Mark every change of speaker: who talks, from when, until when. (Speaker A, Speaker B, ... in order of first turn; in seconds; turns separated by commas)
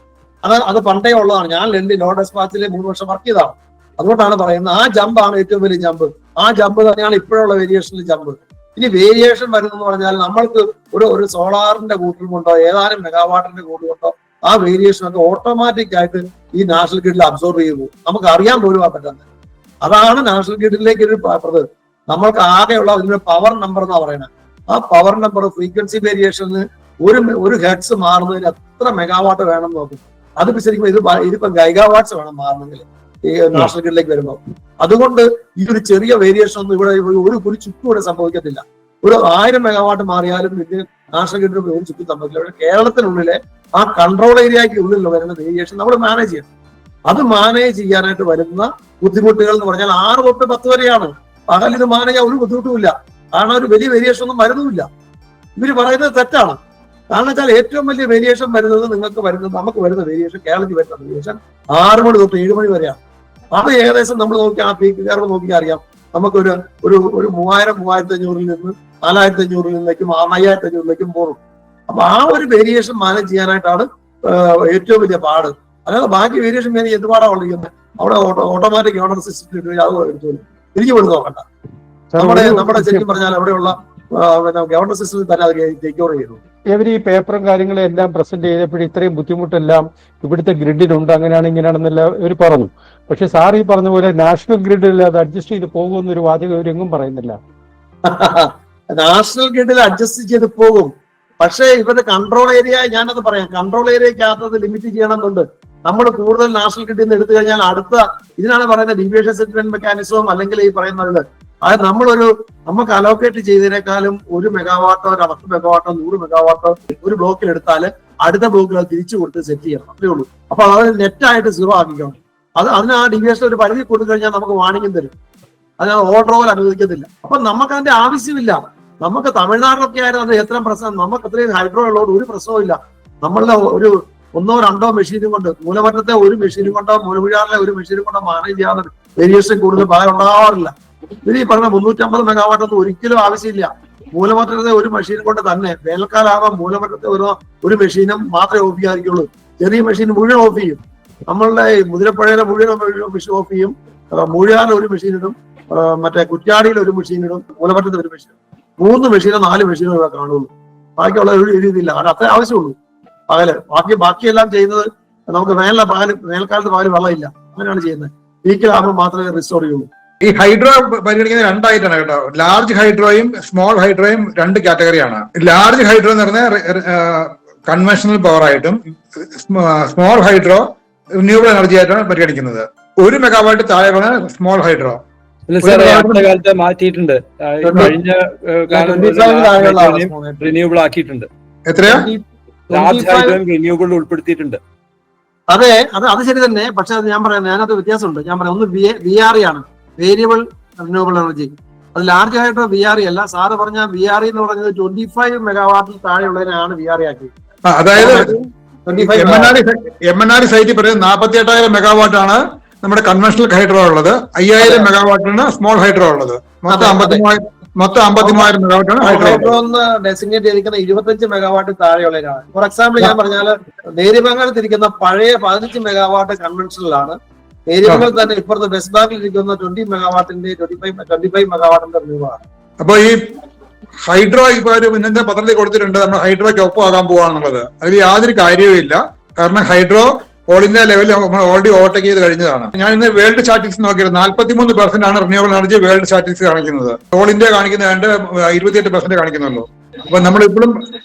Speaker A: 0.4-19.2, Speaker A: 19.8-46.5, Speaker A: 47.1-54.9, Speaker A: 55.6-56.6, Speaker A: 57.1-63.0, Speaker A: 63.5-71.4, Speaker A: 71.9-81.4, Speaker B: 82.1-83.0, Speaker A: 82.2-86.4, Speaker B: 86.7-97.4, Speaker A: 98.0-125.1, Speaker A: 125.8-140.7, Speaker A: 141.2-162.7, Speaker A: 163.3-169.9, Speaker C: 170.2-180.6, Speaker C: 181.2-185.0, Speaker D: 185.5-191.3, Speaker C: 185.6-186.2, Speaker A: 187.6-187.9, Speaker A: 188.7-190.5, Speaker C: 191.7-192.1, Speaker A: 191.9-193.4, Speaker D: 192.7-194.6, Speaker A: 195.5-207.3, Speaker C: 207.7-208.3, Speaker A: 207.9-208.3, Speaker A: 208.9-209.6, Speaker C: 209.0-219.5, Speaker A: 214.6-214.9, Speaker A: 216.7-217.2, Speaker A: 218.2-227.2, Speaker A: 227.7-232.4, Speaker C: 232.8-233.2, Speaker C: 234.1-250.7